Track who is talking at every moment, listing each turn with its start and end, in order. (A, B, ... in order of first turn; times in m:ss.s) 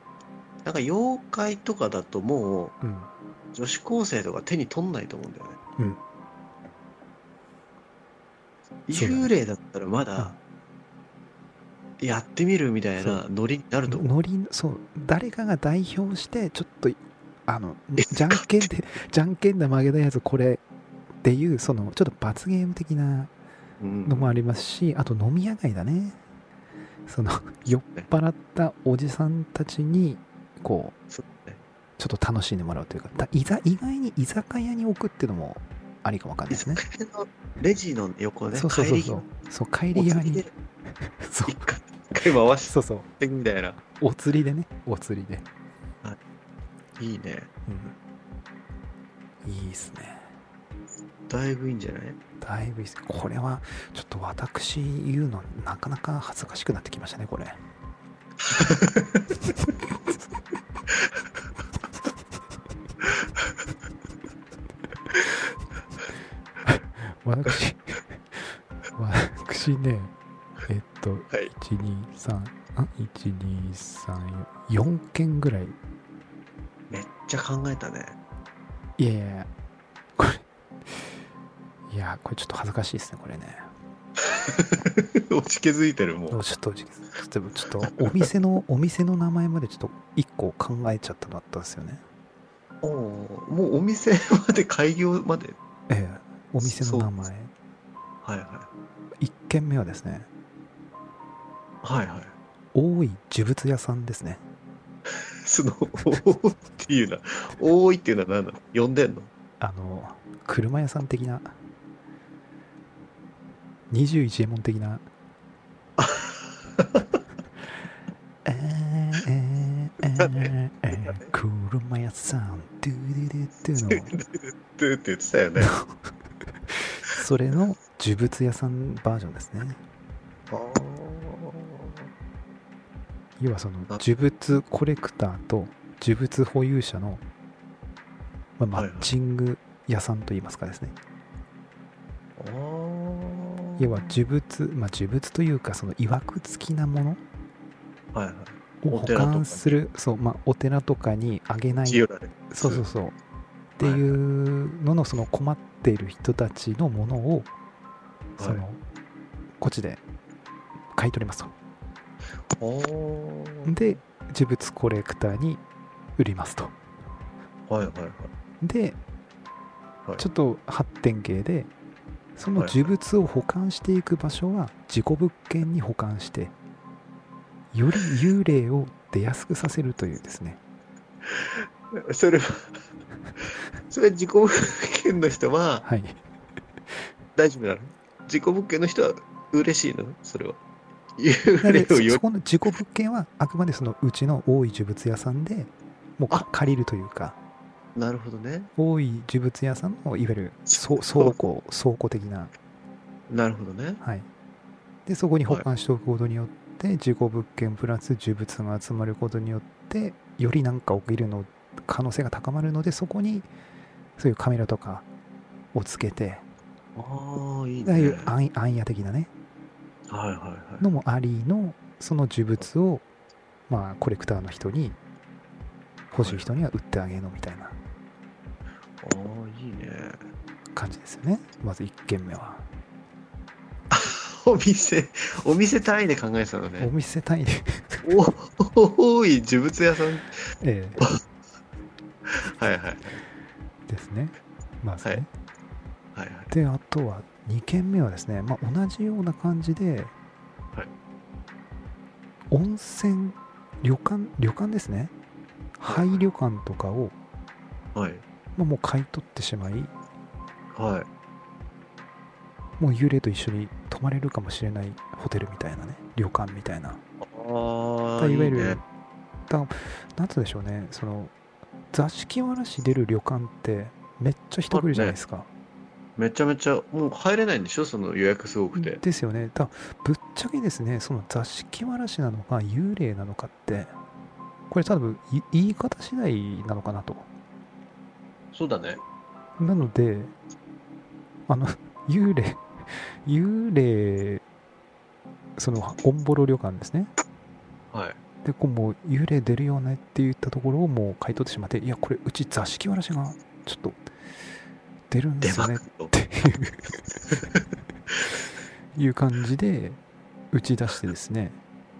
0:00.6-0:02.8 A
0:02.8-0:03.1 B
0:03.5-0:05.6 A
0:08.9-0:10.3 A
0:08.9-0:09.3 B
0:12.0-0:14.1 A
0:13.9-0:20.6 B
0:18.0-0:18.4 A
0:21.2-0:23.3 B
0:23.8-0:24.3 A
0:24.0-0:26.2 B
0:27.1-0:30.9 B
0:31.1-0:31.6 A
0:32.0-0:36.8 B
0:36.5-0:39.3 A
0:38.5-0:40.4 B
0:39.9-0:40.5 A
0:41.0-0:41.7 B
0:41.4-0:43.8 A
0:42.6-0:43.1 B
0:44.0-0:45.4 B
0:47.0-0:47.5 A
0:47.7-0:47.9 B
0:49.4-0:50.2 B
0:51.3-0:52.2 A
0:52.4-0:57.6 B
0:58.4-0:59.3 A
1:06.6-1:10.1 B
1:10.6-1:15.8 B
1:16.9-1:18.2 A
1:19.0-1:19.5 B
1:20.2-1:21.1 B
1:21.9-1:23.7 B
1:24.2-1:26.4 A
1:26.3-1:32.0 B
1:27.9-1:28.2 A
1:32.8-1:35.6 A
1:35.9-1:37.5 B
1:36.6-1:37.1 A
1:38.2-1:38.7 A
1:39.2-1:40.3 B
1:41.8-1:42.3 A
1:42.7-1:44.4 B
1:45.1-1:49.3 A
1:49.6-1:51.5 B
1:53.9-1:55.0 B
1:56.0-1:57.2 A
1:58.4-2:04.2 B
2:00.2-2:01.3 A
2:03.9-2:05.7 A
2:05.6-2:05.9 B
2:06.7-2:09.8 B
2:10.5-2:12.1 A
2:13.4-2:17.2 B
2:18.6-2:20.9 B
2:18.7-2:19.1 A
2:22.4-2:24.2 A
2:23.8-2:27.2 B
2:28.1-2:29.7 A
2:28.8-2:33.2 B
2:31.8-2:32.8 A
2:33.8-2:37.5 B
2:33.8-2:34.2 A
2:38.4-2:38.6 A
2:38.4-2:38.8 B
2:39.6-2:40.0 B
2:40.9-2:41.5 B
2:42.5-2:43.9 A
2:43.6-2:45.6 B
2:46.2-2:46.7 B
2:47.7-2:48.3 A
2:48.6-2:49.0 B
2:50.2-2:51.7 B
2:52.4-2:56.5 B
2:52.6-2:52.9 A
2:57.7-3:00.6 B
3:01.2-3:02.8 A
3:03.9-3:05.8 A
3:05.8-3:06.2 B
3:07.4-3:10.6 A
3:11.2-3:12.2 A
3:11.6-3:17.4 B
3:17.9-3:18.7 A
3:18.8-3:22.5 B
3:20.7-3:21.4 A
3:23.3-3:24.0 A
3:24.0-3:24.3 B
3:25.0-3:33.5 B
3:34.2-3:35.1 B
3:35.7-3:36.4 B
3:37.0-3:38.3 A
3:37.8-3:39.3 B
3:40.1-3:40.8 A
3:40.8-3:43.0 B
3:43.7-3:45.0 B
3:46.1-3:47.8 B
3:46.2-3:46.5 A
3:49.0-3:50.2 A
3:50.7-3:52.6 B
3:53.9-3:56.9 A
3:56.8-3:58.1 B
3:58.0-4:00.3 A
4:00.6-4:01.0 B
4:02.2-4:03.2 A
4:03.9-4:05.3 B
4:06.1-4:06.5 A
4:06.5-4:10.1 B
4:12.5-4:15.1 B
4:15.8-4:17.2 B
4:15.8-4:16.2 A
4:17.9-4:18.2 A
4:18.5-4:19.9 B
4:20.7-4:21.1 A
4:22.8-4:27.0 B
4:27.2-4:28.8 A
4:28.2-4:28.8 B
4:29.5-4:31.3 B
4:31.9-4:35.5 B
4:34.7-4:35.2 A
4:36.2-4:39.0 A
4:38.7-4:43.9 B
4:44.7-4:47.3 B
4:48.5-4:49.0 A
4:49.6-4:50.3 B
4:51.5-4:54.4 B
4:55.6-4:57.1 B
4:57.9-4:58.2 A
4:58.4-5:04.0 B
5:05.1-5:07.0 B
5:05.4-5:06.1 A
5:07.3-5:08.1 A
5:08.9-5:10.0 B
5:10.5-5:11.6 B